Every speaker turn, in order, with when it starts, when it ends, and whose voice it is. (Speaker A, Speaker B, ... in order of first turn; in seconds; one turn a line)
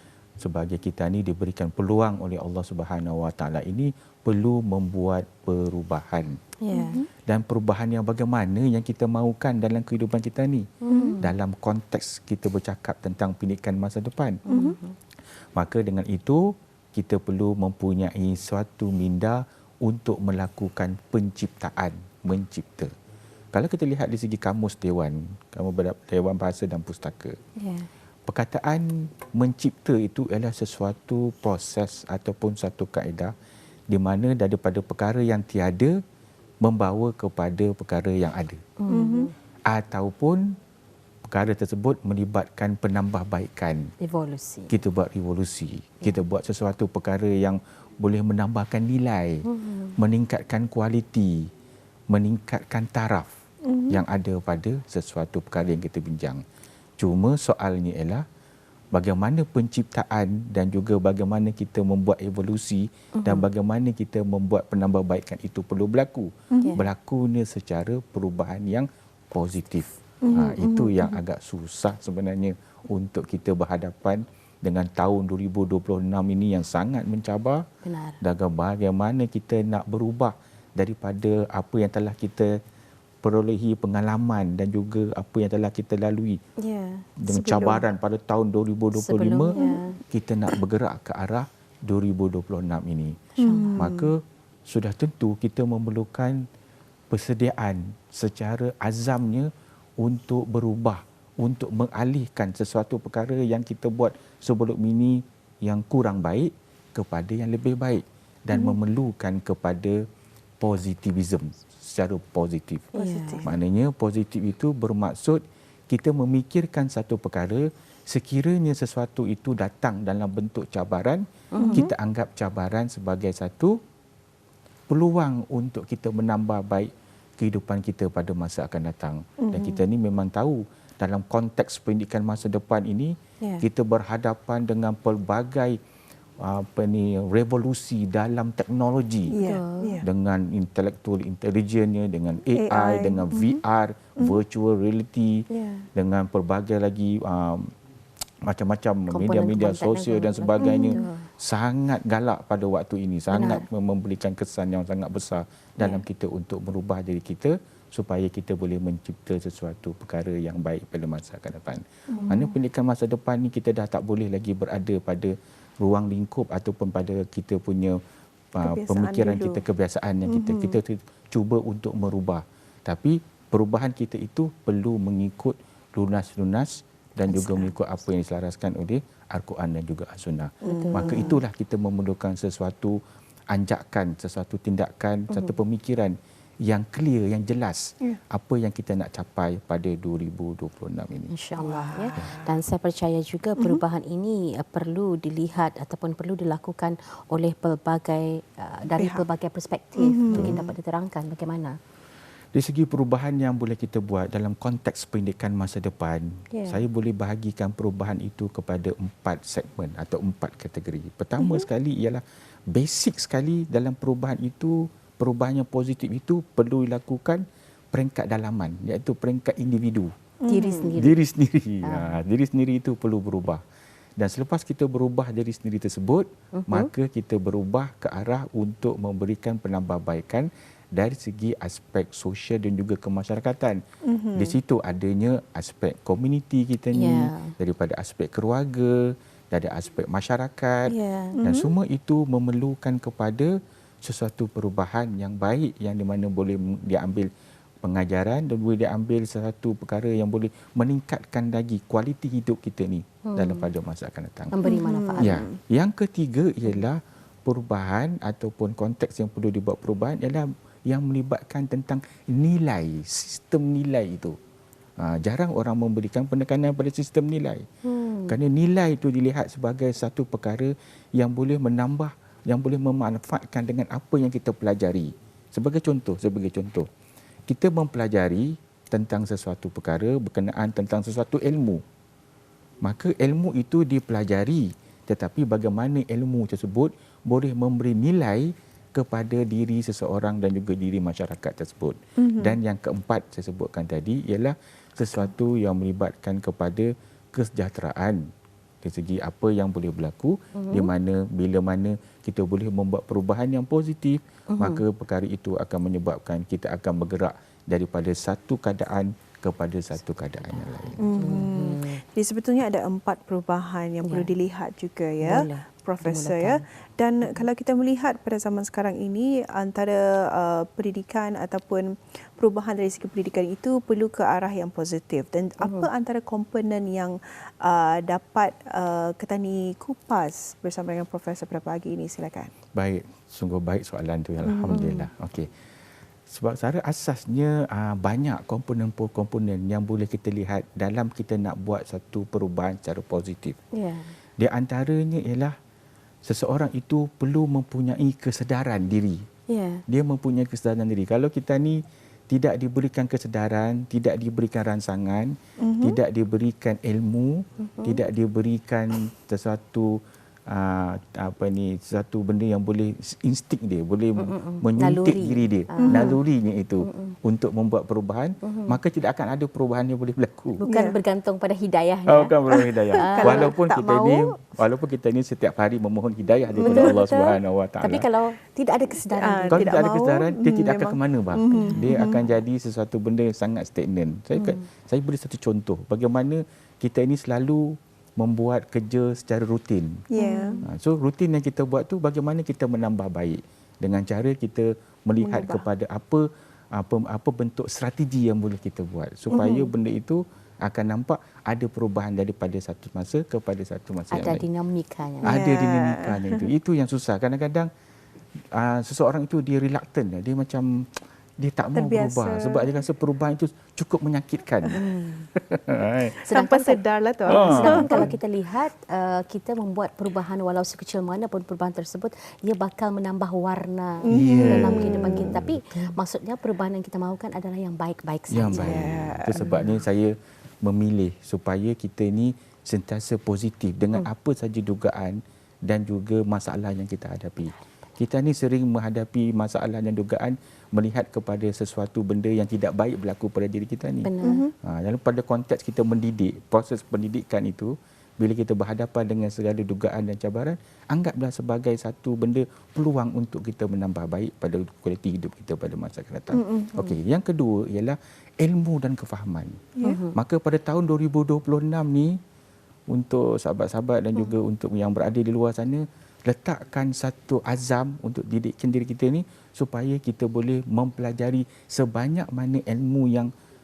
Speaker A: 0.4-6.4
Speaker B: 6.6-7.0
Speaker C: 6.7-7.1
Speaker A: 7.3-10.7
Speaker B: 10.8-11.3
Speaker C: 10.9-11.2
Speaker A: 11.2-14.4
Speaker C: 14.4-14.8
Speaker B: 14.5-14.9
Speaker A: 15.5-22.9
Speaker A: 23.5-27.4
Speaker B: 27.6-27.9
Speaker A: 28.3-33.3
Speaker A: 33.9-36.0
Speaker A: 36.6-38.6
Speaker B: 38.8-39.3
Speaker C: 38.9-39.3
Speaker A: 39.7-40.5
Speaker A: 41.3-43.9
Speaker B: 44.0-44.8
Speaker A: 44.7-49.5
Speaker B: 49.4-50.0
Speaker A: 50.0-51.5
Speaker A: 52.1-53.3
Speaker C: 53.6-54.0
Speaker A: 53.9-56.4
Speaker A: 57.0-58.2
Speaker A: 58.9-77.6
Speaker B: 63.1-63.5
Speaker B: 66.6-66.9
Speaker C: 70.2-71.2
Speaker B: 77.8-78.2
Speaker A: 78.2-82.5
Speaker A: 83.2-86.4
Speaker B: 86.6-87.0
Speaker A: 87.2-89.6
Speaker C: 87.2-87.8
Speaker B: 88.9-90.0
Speaker C: 89.5-89.8
Speaker A: 90.1-93.2
Speaker C: 93.4-94.1
Speaker B: 93.4-93.8
Speaker A: 93.8-94.2
Speaker A: 94.7-96.4
Speaker A: 97.1-110.0
Speaker C: 108.5-108.8
Speaker A: 110.6-112.9
Speaker C: 112.9-113.5
Speaker B: 112.9-113.5
Speaker A: 113.4-123.8
Speaker B: 121.5-121.9
Speaker C: 121.6-121.9
Speaker A: 124.9-135.8
Speaker C: 129.4-129.8
Speaker A: 136.4-139.3
Speaker B: 139.3-140.0
Speaker C: 139.3-140.1
Speaker A: 140.0-147.7
Speaker C: 142.5-143.6
Speaker B: 145.5-145.9
Speaker A: 148.4-168.0
Speaker B: 149.1-151.3
Speaker C: 150.6-151.1
Speaker B: 153.3-153.7
Speaker B: 155.8-156.0
Speaker C: 162.1-162.5
Speaker A: 168.5-183.0
Speaker C: 168.6-169.6
Speaker C: 170.2-170.8
Speaker B: 177.3-177.8
Speaker B: 180.6-181.4
Speaker C: 180.6-181.3
Speaker A: 183.5-191.3
Speaker B: 185.3-185.6
Speaker B: 191.3-201.8
Speaker C: 191.6-192.5
Speaker C: 198.9-199.2
Speaker C: 200.0-200.6
Speaker A: 200.3-200.7
Speaker A: 202.5-220.1
Speaker B: 206.5-206.8
Speaker C: 211.4-211.7
Speaker C: 220.4-220.9
Speaker B: 220.5-221.2
Speaker A: 220.9-223.6
Speaker B: 221.8-222.2
Speaker A: 224.2-233.8
Speaker B: 226.5-226.9
Speaker C: 234.0-234.6
Speaker A: 234.3-247.3
Speaker B: 236.9-237.5
Speaker B: 240.9-241.4
Speaker C: 241.3-241.7
Speaker A: 247.8-254.6
Speaker B: 253.2-253.7
Speaker B: 254.5-255.4
Speaker C: 254.6-255.6
Speaker A: 255.2-264.4
Speaker A: 265.0-267.6
Speaker B: 267.8-268.4
Speaker A: 268.3-276.9
Speaker A: 277.5-281.8
Speaker A: 282.8-298.2
Speaker C: 292.2-292.6
Speaker A: 298.8-311.1
Speaker B: 300.5-300.9
Speaker B: 304.5-304.8
Speaker B: 310.4-312.0
Speaker C: 311.0-332.5
Speaker B: 314.0-314.3
Speaker B: 315.2-316.6
Speaker B: 325.6-325.9
Speaker A: 332.7-335.5
Speaker C: 334.4-334.8
Speaker B: 334.7-335.1
Speaker A: 336.3-343.6
Speaker B: 343.7-344.1
Speaker A: 344.4-345.5
Speaker A: 346.2-349.2
Speaker B: 349.5-349.8
Speaker A: 349.9-370.6
Speaker C: 355.6-356.0
Speaker B: 357.6-358.0
Speaker B: 364.2-366.2
Speaker C: 365.8-366.1
Speaker B: 366.8-367.1
Speaker B: 368.4-368.8
Speaker B: 370.6-372.3
Speaker C: 370.7-371.0
Speaker A: 372.1-378.1
Speaker C: 372.5-374.3
Speaker B: 373.0-373.5
Speaker B: 376.6-379.8
Speaker C: 376.6-377.0
Speaker C: 379.1-382.2
Speaker A: 379.5-390.0
Speaker B: 381.5-382.3
Speaker B: 384.3-384.6
Speaker C: 390.1-390.6
Speaker B: 390.2-390.7
Speaker A: 390.6-404.4
Speaker C: 395.2-395.7
Speaker C: 399.3-399.7
Speaker B: 404.1-405.4
Speaker A: 405.2-407.7
Speaker C: 405.2-406.5
Speaker A: 408.5-414.8
Speaker C: 411.7-412.7
Speaker B: 414.7-415.3
Speaker A: 415.4-416.1
Speaker B: 416.3-429.8
Speaker C: 416.3-418.1
Speaker A: 417.2-418.1
Speaker C: 424.0-425.4
Speaker A: 424.1-425.5
Speaker A: 428.3-444.1
Speaker C: 428.5-429.4
Speaker B: 444.0-444.4
Speaker C: 444.2-444.5
Speaker A: 444.6-462.2
Speaker C: 456.3-456.7
Speaker B: 459.8-460.2
Speaker A: 462.9-473.3